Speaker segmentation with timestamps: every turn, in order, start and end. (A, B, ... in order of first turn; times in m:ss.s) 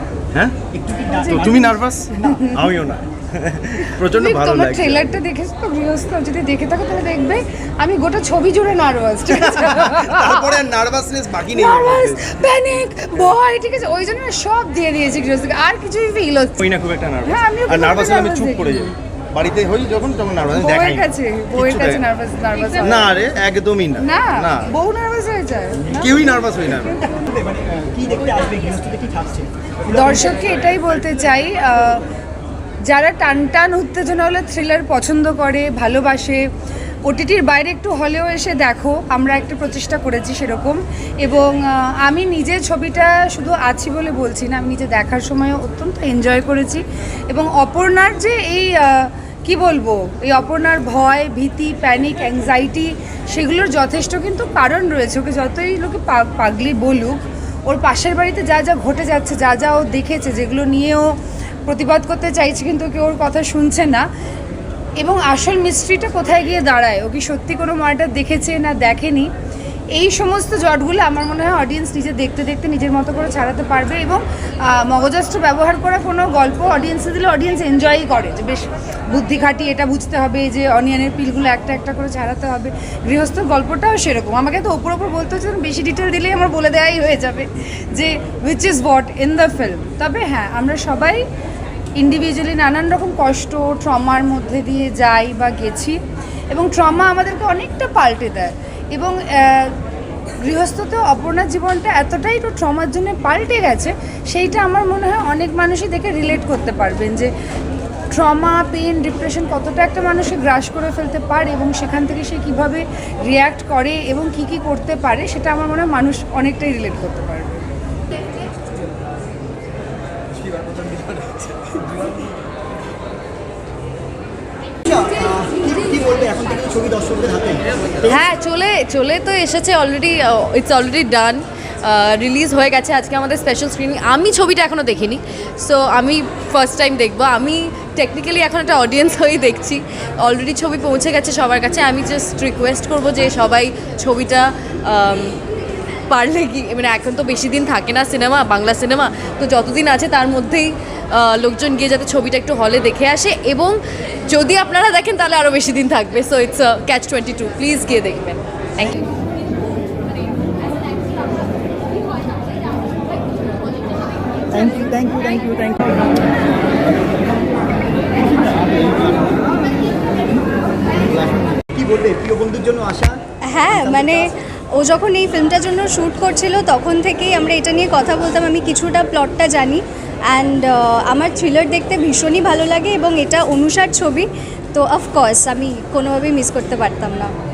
0:00.7-0:02.5 A
0:01.1-0:01.5 B
0:01.4-0:05.2 C
0:04.1-0:10.6 B
0:09.3-0:12.4 C
0:11.5-0:16.6 B
0:16.6-0:22.0 C
0:17.2-0:19.0 B
0:20.5-0:23.1 B
0:22.8-0:24.7 C
0:24.0-0:27.2 B
0:25.9-0:26.1 A
0:26.0-0:26.9 C
0:26.9-0:30.4 A
0:29.9-0:32.0 B
0:32.8-0:36.5 B
0:37.1-1:01.1 B
1:01.7-1:04.1 B
1:05.0-1:09.3 B
1:10.0-1:31.2 B
1:32.0-1:36.0 B
1:36.5-1:39.8 B
1:40.4-1:47.3 B
1:48.1-1:57.6 B
2:00.4-2:02.3 A
2:04.9-2:08.2 A
2:08.1-2:25.4 D
2:26.1-2:39.0 D
2:44.5-2:46.2 A
2:46.8-2:47.4 A
2:48.2-2:49.4 A
2:50.9-2:54.3 A
2:53.4-3:07.3 E